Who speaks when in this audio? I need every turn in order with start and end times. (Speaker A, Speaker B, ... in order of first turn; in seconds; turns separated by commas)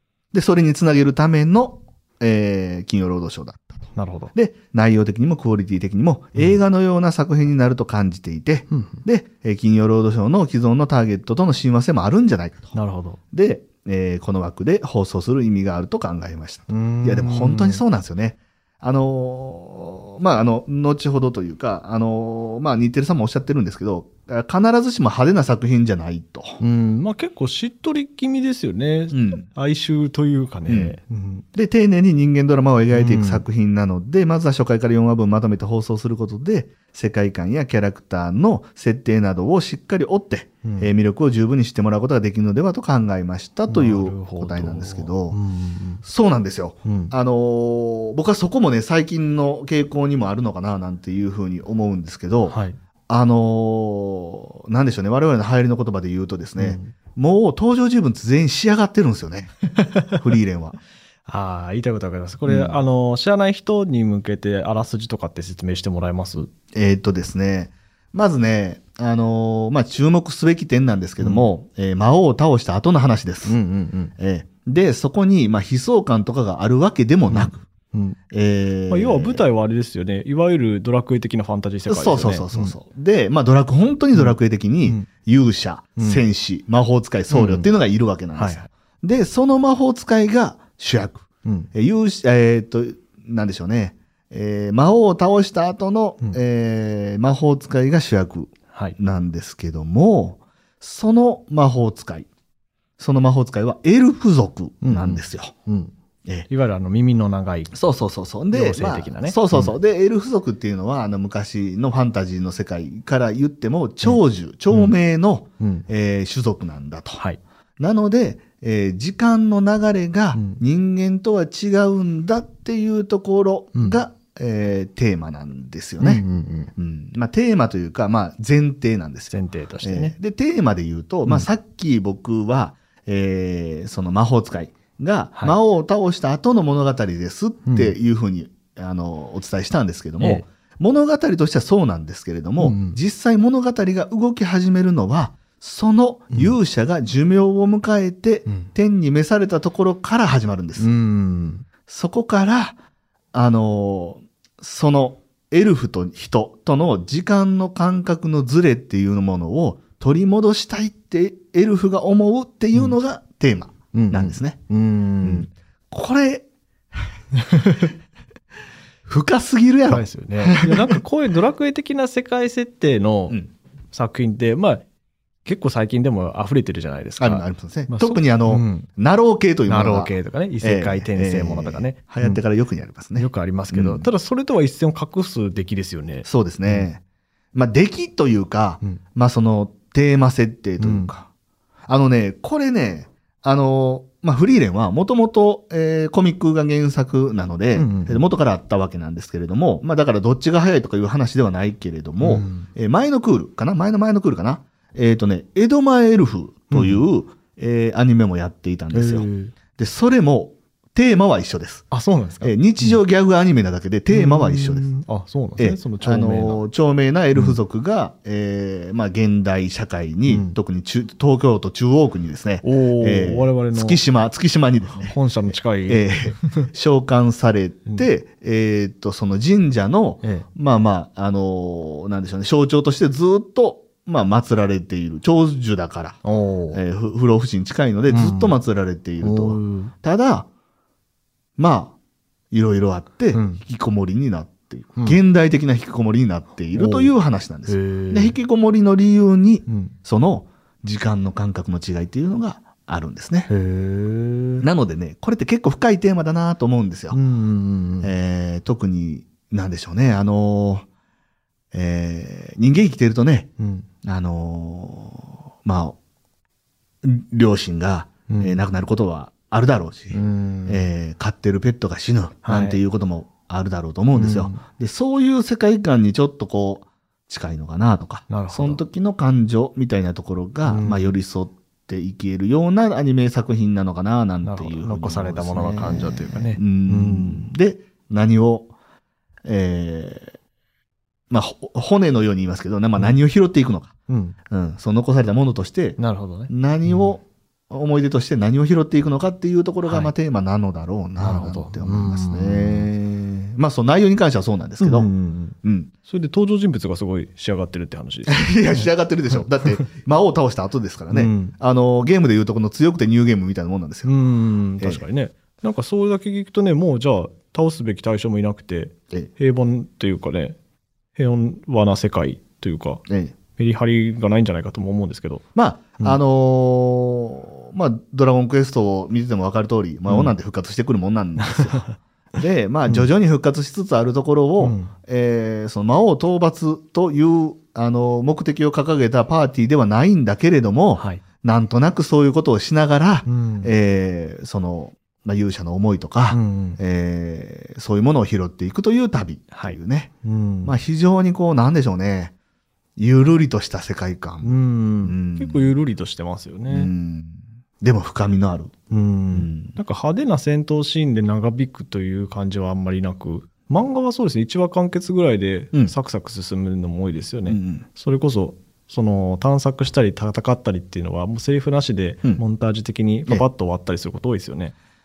Speaker A: 0.3-12.7, Speaker B: 3.9-4.3, Speaker B: 8.7-9.0, Speaker B: 12.7-13.2, Speaker A: 13.3-26.6, Speaker B: 16.7-17.8, Speaker B: 26.6-31.4, Speaker A: 29.1-29.4, Speaker A: 30.7-30.9, Speaker A: 31.5-45.4, Speaker B: 32.9-33.4, Speaker B: 40.6-40.9, Speaker B: 43.7-46.0, Speaker A: 46.0-52.6, Speaker B: 46.8-47.1, Speaker B: 52.5-52.8, Speaker A: 53.1-60.8, Speaker B: 56.6-56.9, Speaker B: 59.8-60.2, Speaker B: 61.3-66.5, Speaker A: 62.5-62.8, Speaker A: 66.7-73.6, Speaker B: 71.2-71.5, Speaker B: 73.4-74.1, Speaker A: 74.2-77.6, Speaker B: 77.3-78.2, Speaker A: 78.3-79.4, Speaker B: 78.9-82.7, Speaker A: 81.9-102.3, Speaker B: 84.1-85.1, Speaker B: 86.0-86.2, Speaker B: 87.3-87.7, Speaker B: 88.3-88.6, Speaker B: 91.4-91.7, Speaker B: 98.7-99.0, Speaker A: 103.0-105.5, Speaker B: 104.8-105.9, Speaker B: 106.5-107.8, Speaker A: 107.7-117.2, Speaker B: 108.5-109.7, Speaker B: 114.0-114.9, Speaker B: 115.6-115.9, Speaker A: 117.8-126.2, Speaker B: 120.3-120.6, Speaker B: 126.0-126.7, Speaker A: 126.8-150.9, Speaker B: 129.3-130.1, Speaker B: 137.7-137.9, Speaker B: 140.2-140.4, Speaker B: 142.6-143.0, Speaker B: 150.8-151.7, Speaker A: 151.9-152.8, Speaker A: 153.3-164.6, Speaker B: 163.9-165.5, Speaker A: 165.2-166.4, Speaker B: 167.5-167.8, Speaker A: 169.1-171.0, Speaker B: 169.9-173.4, Speaker B: 173.9-174.8, Speaker B: 175.4-178.9, Speaker A: 177.2-184.1, Speaker B: 179.7-182.4, Speaker B: 183.1-186.9, Speaker A: 186.2-187.0, Speaker A: 187.5-191.3, Speaker B: 190.8-191.1, Speaker A: 191.9-211.9, Speaker B: 197.8-198.2, Speaker B: 202.2-202.7, Speaker B: 206.7-207.0, Speaker B: 208.9-209.5, Speaker B: 211.9-213.0, Speaker A: 212.4-214.9, Speaker B: 214.1-216.6, Speaker A: 215.6-225.2, Speaker B: 217.3-217.6, Speaker B: 220.3-220.6, Speaker B: 222.6-224.0, Speaker B: 224.9-226.7, Speaker A: 225.9-236.2, Speaker B: 230.2-230.5, Speaker B: 236.2-236.8, Speaker A: 236.7-240.5, Speaker B: 238.1-238.5, Speaker B: 239.2-239.9, Speaker A: 241.6-241.9, Speaker A: 242.5-253.5, Speaker B: 243.3-243.6, Speaker B: 246.7-247.1, Speaker B: 247.7-248.3, Speaker B: 249.7-249.9, Speaker B: 253.5-254.7, Speaker A: 254.6-257.2, Speaker B: 257.1-258.1, Speaker A: 258.0-260.9, Speaker A: 261.7-263.5, Speaker B: 263.6-263.9, Speaker A: 264.0-265.9, Speaker A: 267.0-288.7, Speaker B: 268.3-268.6, Speaker B: 270.1-270.8, Speaker B: 272.4-272.8, Speaker B: 274.1-274.6, Speaker B: 278.3-278.8, Speaker B: 280.7-281.1, Speaker B: 284.4-287.5, Speaker A: 289.4-290.3, Speaker A: 291.3-293.9, Speaker B: 294.1-294.4, Speaker A: 294.5-305.1, Speaker B: 296.0-297.1, Speaker B: 299.8-300.1, Speaker B: 301.2-302.9, Speaker B: 304.8-309.8, Speaker A: 305.6-305.9, Speaker A: 308.3-314.1, Speaker B: 311.1-311.6, Speaker B: 314.0-320.6, Speaker B: 321.1-323.0, Speaker A: 323.1-323.3, Speaker B: 323.6-325.4, Speaker A: 325.5-350.1, Speaker B: 330.1-330.3, Speaker B: 331.4-331.9, Speaker B: 334.6-334.9, Speaker B: 340.9-341.2, Speaker B: 343.2-343.7, Speaker B: 346.3-346.8, Speaker B: 349.5-350.7, Speaker A: 350.6-352.3, Speaker A: 353.0-355.7, Speaker B: 354.4-356.9, Speaker A: 356.7-358.7, Speaker B: 358.9-374.7, Speaker A: 359.3-359.8, Speaker A: 367.4-367.8